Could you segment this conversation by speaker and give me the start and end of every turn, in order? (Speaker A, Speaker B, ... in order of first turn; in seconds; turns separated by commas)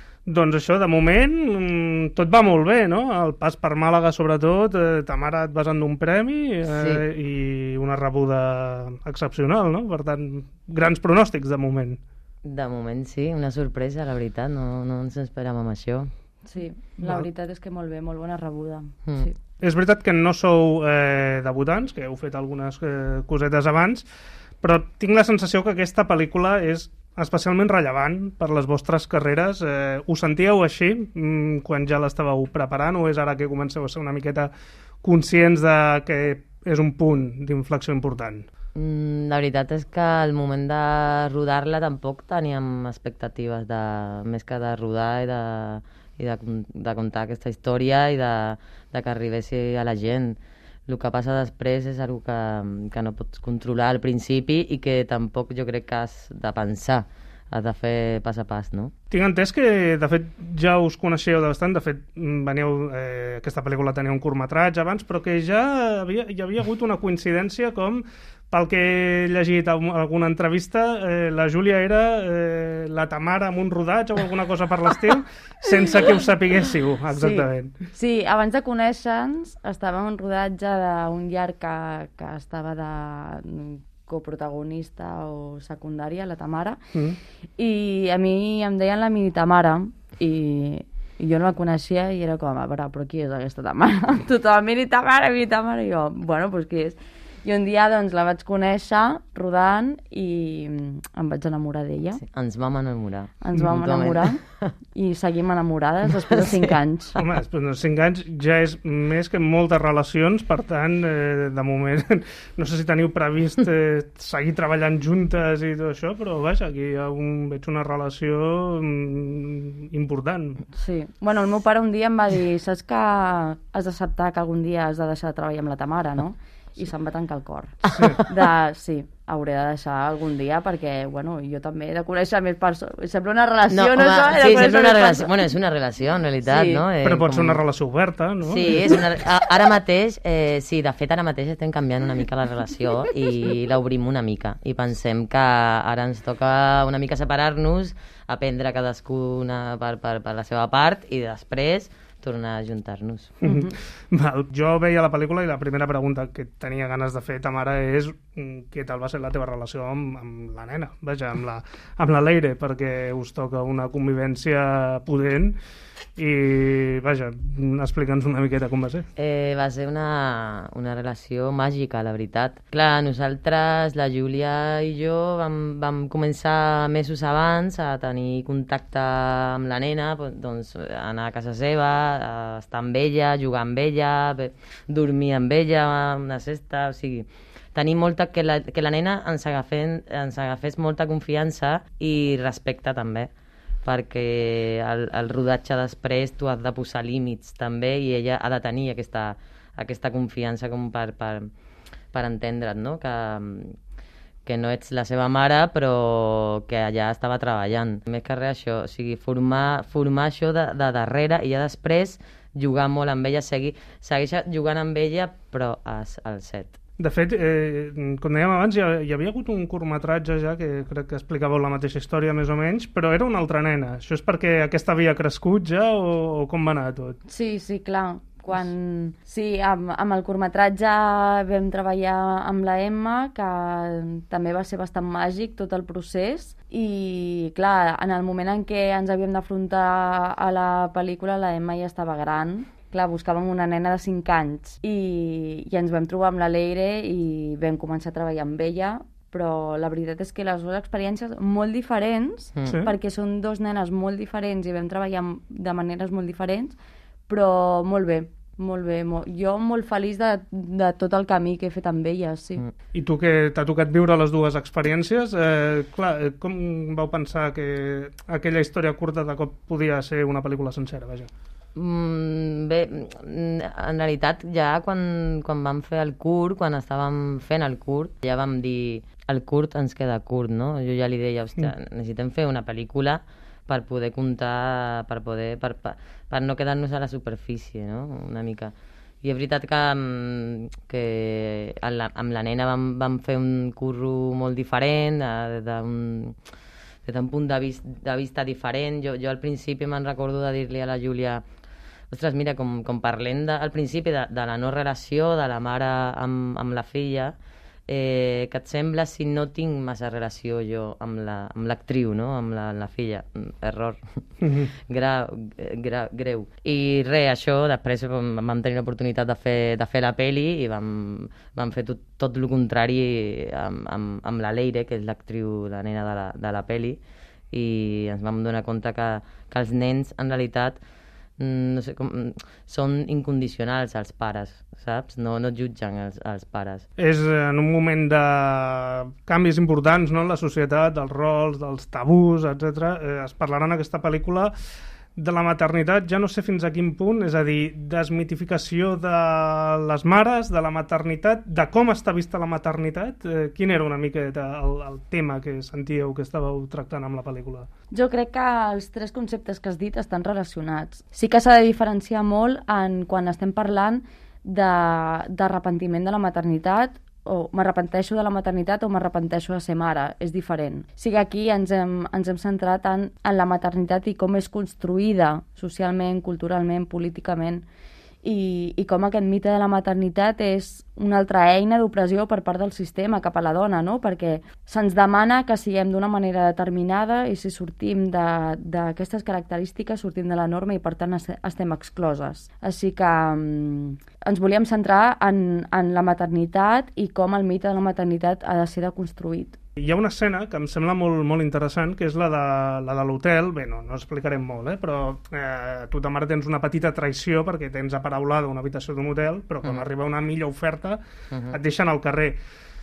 Speaker A: 0.3-12.0, Speaker B: 6.7-7.0, Speaker B: 12.4-16.1, Speaker C: 16.4-19.4, Speaker A: 19.6-24.1, Speaker A: 24.6-34.5, Speaker A: 35.0-38.5, Speaker B: 38.8-58.9, Speaker A: 59.1-77.7, Speaker C: 77.1-86.8, Speaker C: 87.6-102.2, Speaker B: 102.2-104.8, Speaker C: 103.4-104.4, Speaker C: 104.9-107.2, Speaker B: 106.3-106.7, Speaker A: 107.2-120.6, Speaker C: 120.7-135.5, Speaker A: 127.9-128.2, Speaker B: 133.7-137.6, Speaker A: 134.3-135.2, Speaker C: 136.5-136.9, Speaker A: 137.0-139.1, Speaker B: 138.4-153.4, Speaker A: 153.4-165.6, Speaker C: 153.4-153.7, Speaker A: 166.2-169.1, Speaker B: 169.2-193.3, Speaker B: 193.8-201.5, Speaker B: 202.1-203.8, Speaker B: 204.5-216.8, Speaker A: 217.0-227.2, Speaker C: 227.3-256.8, Speaker A: 252.7-252.9, Speaker C: 257.3-262.6, Speaker A: 262.9-271.3, Speaker B: 271.8-296.4, Speaker B: 297.1-301.4, Speaker B: 302.1-307.3, Speaker B: 307.9-314.2, Speaker A: 314.4-314.7, Speaker B: 314.8-327.0, Speaker B: 327.5-330.8, Speaker B: 331.4-336.9, Speaker A: 337.0-344.5, Speaker A: 345.2-357.7, Speaker C: 357.9-377.7, Speaker C: 378.2-399.6, Speaker A: 399.8-412.4, Speaker B: 411.3-411.6